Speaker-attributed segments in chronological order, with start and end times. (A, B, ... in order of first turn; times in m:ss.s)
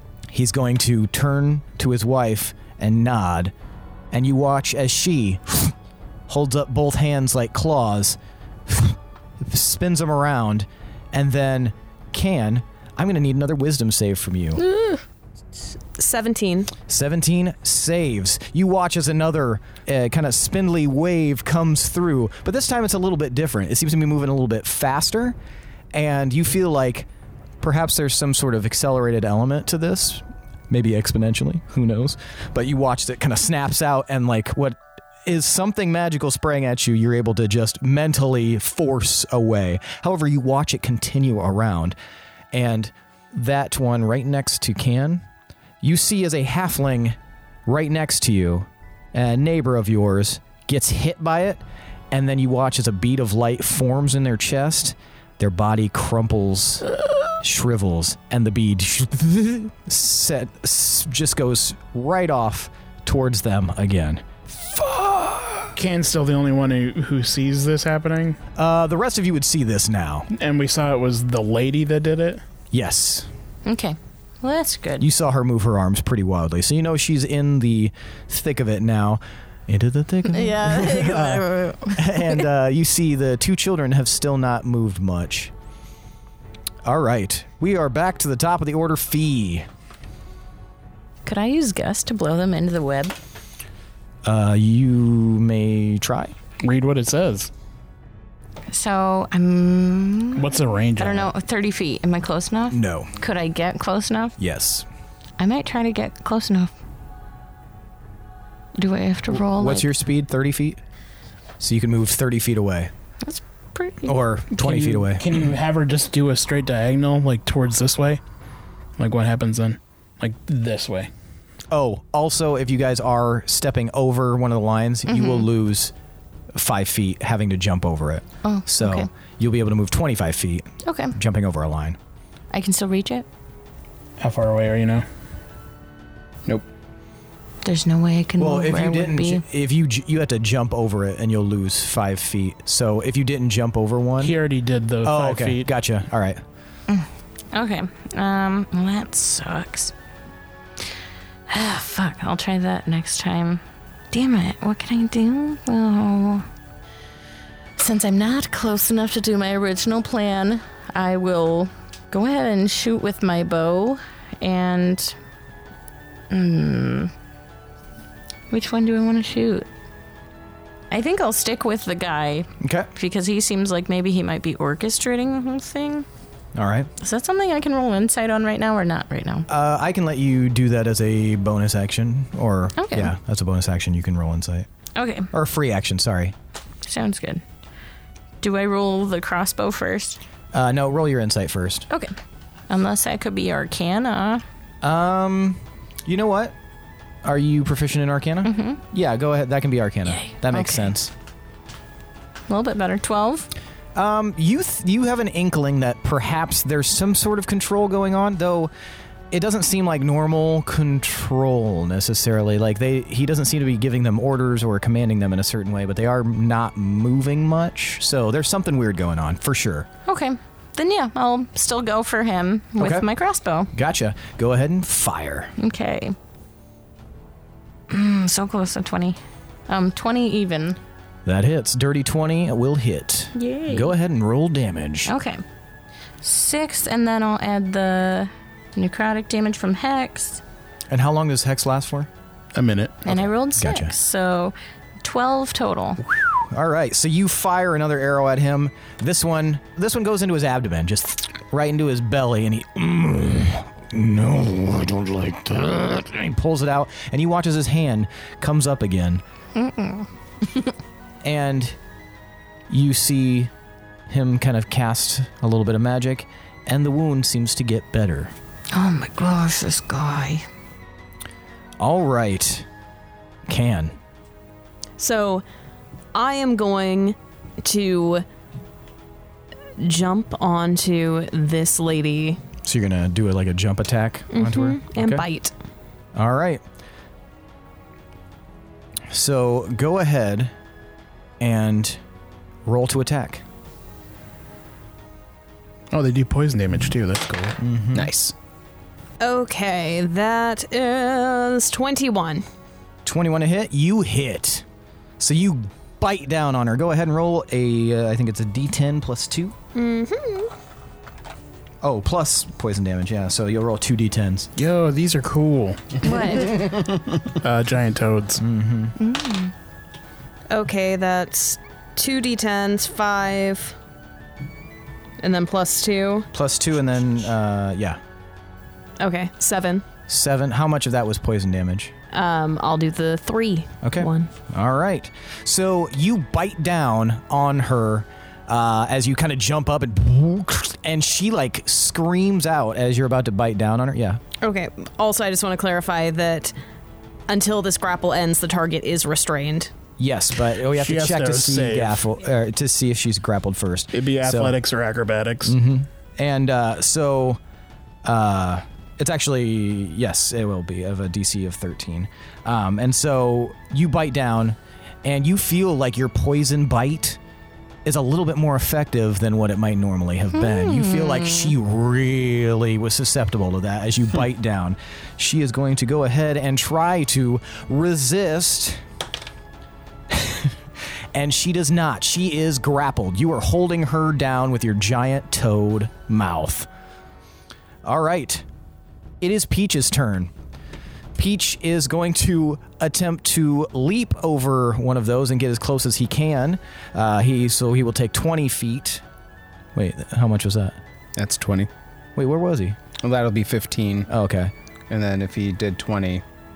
0:00.3-0:03.5 A
0:04.1-0:05.7 A
0:06.3-0:14.6 A
0:14.6-0:15.0 B
0:16.0-0:16.7 C
0:16.9-0:25.4 A
0:25.9-0:27.1 A
0:27.6-0:42.0 A
0:42.5-0:45.2 A
0:45.8-0:56.9 A
0:57.4-1:05.7 A
1:05.8-1:08.4 D
1:08.5-1:10.3 A
1:10.3-1:12.4 D
1:12.7-1:13.3 A
1:13.6-1:15.0 B
1:15.0-1:25.5 A
1:20.3-1:22.4 B
1:26.8-1:29.7 A
1:31.2-1:33.2 B
1:34.2-1:36.3 A
1:36.6-1:37.5 D
1:38.7-1:44.4 B
1:40.4-1:41.3 D
1:42.7-1:43.1 A
1:44.4-1:44.8 A
1:45.4-1:46.7 B
1:48.8-1:49.9 B
1:49.5-1:50.8 A
1:51.6-1:52.9 A
1:53.2-1:54.1 B
1:54.0-1:55.2 A
1:54.5-1:58.2 D
1:59.0-2:01.1 D
2:01.7-2:05.9 A
2:05.1-2:05.5 B
2:06.5-2:12.0 A
2:08.4-2:09.1 B
2:10.8-2:11.1 B
2:12.5-2:13.2 B
2:14.2-2:15.0 D
2:17.6-2:19.4 B
2:18.4-2:24.4 A
2:24.2-2:25.7 D
2:25.0-2:26.4 A
2:26.9-2:29.9 B
2:31.5-2:36.4 B
2:37.8-2:45.1 B
2:46.3-2:47.1 B
2:48.5-2:49.7 B
2:50.9-2:56.0 B
2:52.6-2:52.9 A
2:56.5-2:56.9 A
2:57.0-2:59.4 B
2:59.5-3:04.7 A
3:02.8-3:03.1 B
3:04.9-3:05.3 B
3:05.3-3:06.3 A
3:06.8-3:07.4 B
3:08.4-3:10.2 B
3:10.5-3:11.9 A
3:12.7-3:14.4 B
3:14.8-3:16.5 A
3:17.2-3:21.1 A
3:18.4-3:18.8 B
3:20.1-3:20.9 B
3:22.5-3:23.5 B
3:23.9-3:28.7 A
3:29.3-3:39.9 A
3:40.0-3:43.7 B
3:42.8-3:43.1 A
3:43.7-3:45.5 A
3:45.6-3:46.2 B
3:47.9-3:50.8 B
3:51.2-3:55.1 A
3:53.3-3:53.9 B
3:55.0-3:55.4 B
3:56.2-4:00.4 B
4:00.9-4:02.1 A
4:02.5-4:03.0 D
4:03.0-4:06.0 B
4:03.6-4:03.9 A
4:06.3-4:19.2 A
4:19.5-4:20.1 B
4:21.2-4:21.8 A
4:22.7-4:23.5 A
4:24.1-4:28.3 A
4:28.7-4:30.4 B
4:31.8-4:32.7 A
4:33.5-4:34.0 A
4:35.0-4:35.4 C
4:36.1-4:38.2 C
4:39.8-4:42.4 C
4:42.6-4:45.2 A
4:44.3-4:45.5 C
4:46.1-4:46.6 A
4:49.1-4:50.5 A
4:51.4-4:52.0 A
4:52.6-4:53.4 A
4:55.9-4:57.6 D
4:57.6-4:58.1 A
4:57.9-4:58.3 E
4:59.2-5:02.4 C
5:03.0-5:04.6 A
5:05.2-5:09.5 A
5:09.7-5:10.5 C
5:11.8-5:14.5 A
5:14.6-5:16.0 D
5:16.0-5:16.6 B
5:16.1-5:16.4 C
5:17.3-5:18.4 D
5:18.4-5:18.9 A
5:19.0-5:19.5 B
5:20.5-5:23.8 C
5:25.2-5:26.3 C
5:26.3-5:28.0 A
5:29.0-5:29.8 C
5:30.1-5:31.9 A
5:32.1-5:34.3 C
5:33.8-5:44.2 A
5:44.4-5:46.5 C
5:47.3-5:49.7 C
5:50.0-5:54.5 A
5:50.7-5:52.0 D
5:53.9-5:55.6 D
5:55.4-5:57.4 A
5:58.0-6:07.2 A
6:07.8-6:18.8 A
6:10.3-6:11.5 B
6:20.1-6:20.6 A
6:21.1-6:26.7 A
6:27.8-6:28.4 A
6:29.2-6:30.3 A
6:31.2-6:39.0 A
6:39.7-6:40.8 A
6:41.2-6:41.7 E
6:42.2-6:42.8 A
6:43.0-6:44.1 E
6:44.1-6:44.5 A
6:44.9-6:46.2 E